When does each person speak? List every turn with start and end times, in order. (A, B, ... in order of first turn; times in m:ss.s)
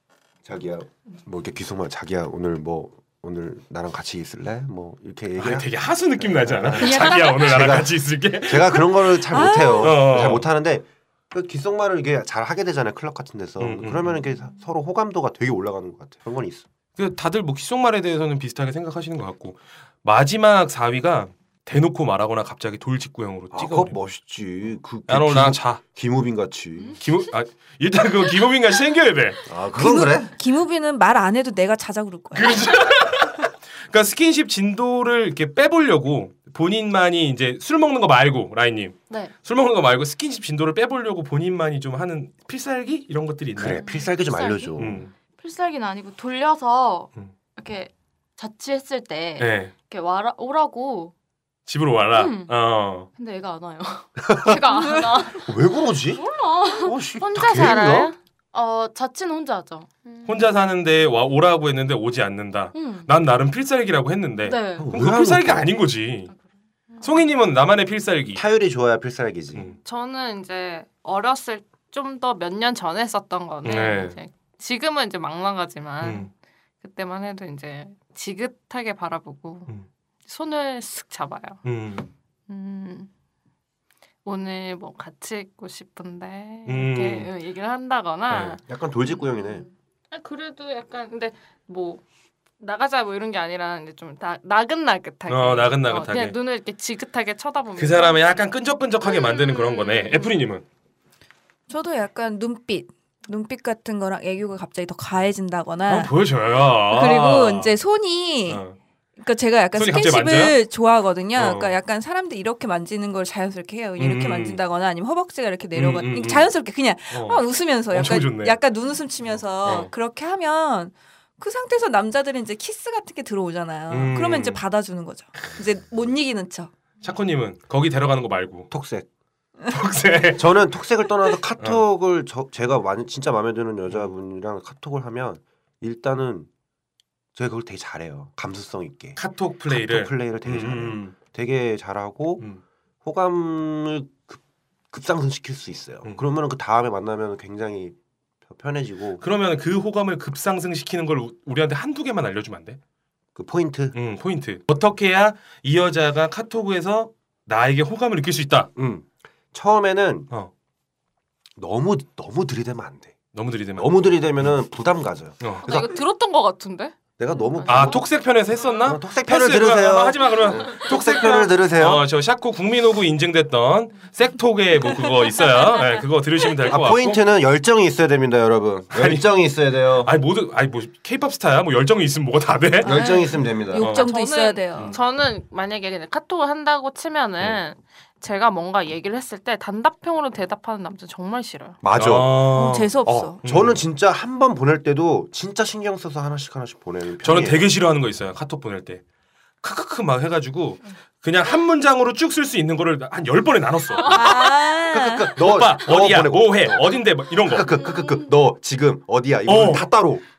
0:00.4-0:16.7 A
0:05.4-0:10.5 B
0:09.3-0:09.9 C
0:13.6-0:14.2 B
0:17.0-0:24.0 B
0:23.5-0:27.0 A
0:25.1-0:25.8 B
0:27.0-0:29.4 B
0:29.5-0:30.3 A
0:29.8-0:32.6 C
0:32.4-0:43.8 B
0:43.6-0:45.0 A
0:43.8-0:51.1 D
0:44.8-0:45.1 B
0:49.4-0:49.7 B
0:51.7-0:53.1 B
0:52.1-0:52.5 D
0:53.2-0:55.5 D
0:54.3-0:54.7 A
0:55.2-0:56.2 A
0:56.1-0:57.0 D
0:56.8-0:58.1 A
0:57.2-0:58.2 E
0:58.5-1:00.5 D
1:00.2-1:06.3 B
1:02.7-1:03.1 D
1:04.4-1:04.9 D
1:04.8-1:05.7 A
1:06.9-1:07.2 D
1:07.0-1:08.4 B
1:08.4-1:09.7 A
1:09.8-1:16.3 E
1:13.6-1:14.2 B
1:16.0-1:16.3 B
1:16.8-1:19.7 E
1:20.2-1:21.6 E
1:21.6-1:22.1 B
1:22.5-1:23.1 E
1:24.2-1:28.6 E
1:26.7-1:27.3 B
1:28.3-1:28.6 B
1:28.7-1:29.7 A
1:30.1-1:32.0 E
1:32.6-1:38.5 E
1:35.3-1:36.4 B
1:37.8-1:40.6 B
1:39.1-1:40.3 E
1:41.7-1:46.1 C
1:45.9-1:47.8 B
1:46.9-1:48.6 C
1:48.5-1:48.8 B
1:49.2-2:06.7 C
1:49.8-1:50.6 B
1:51.4-1:51.8 B
1:54.0-1:54.6 B
1:55.8-1:56.5 B
1:57.1-1:58.6 B
1:59.6-1:59.9 B
2:03.9-2:04.6 B
2:07.0-2:08.7 B
2:08.7-2:09.1 A
2:09.7-2:10.5 B
2:10.4-2:16.5 A
2:17.4-2:22.4 A
2:19.2-2:21.2 B
2:23.0-2:29.2 A
2:29.2-2:32.8 B
2:33.4-2:34.0 A
2:33.9-2:38.7 B
2:38.8-2:40.3 A
2:41.6-2:43.2 A
2:43.3-2:44.5 B
2:43.8-2:45.9 A
2:45.4-2:45.9 B
2:45.6-2:47.0 E
2:47.2-2:48.1 A
2:47.6-2:57.2 B
2:48.8-2:52.1 A
2:56.7-3:00.1 A
2:58.9-2:59.3 B
3:00.0-3:02.9 B
3:02.8-3:03.9 A
3:02.8-3:04.9 C
3:03.8-3:04.1 B
3:03.8-3:11.8 E
3:11.8-3:12.5 A
3:11.9-3:13.8 B
3:12.5-3:13.4 C
3:13.1-3:17.7 A
3:17.2-3:19.0 B
3:19.6-3:24.3 B
3:24.0-3:24.2 D
3:24.0-3:25.3 C
3:24.9-3:30.2 A
3:25.4-3:27.7 B
3:27.6-3:28.4 D
3:29.5-3:29.9 B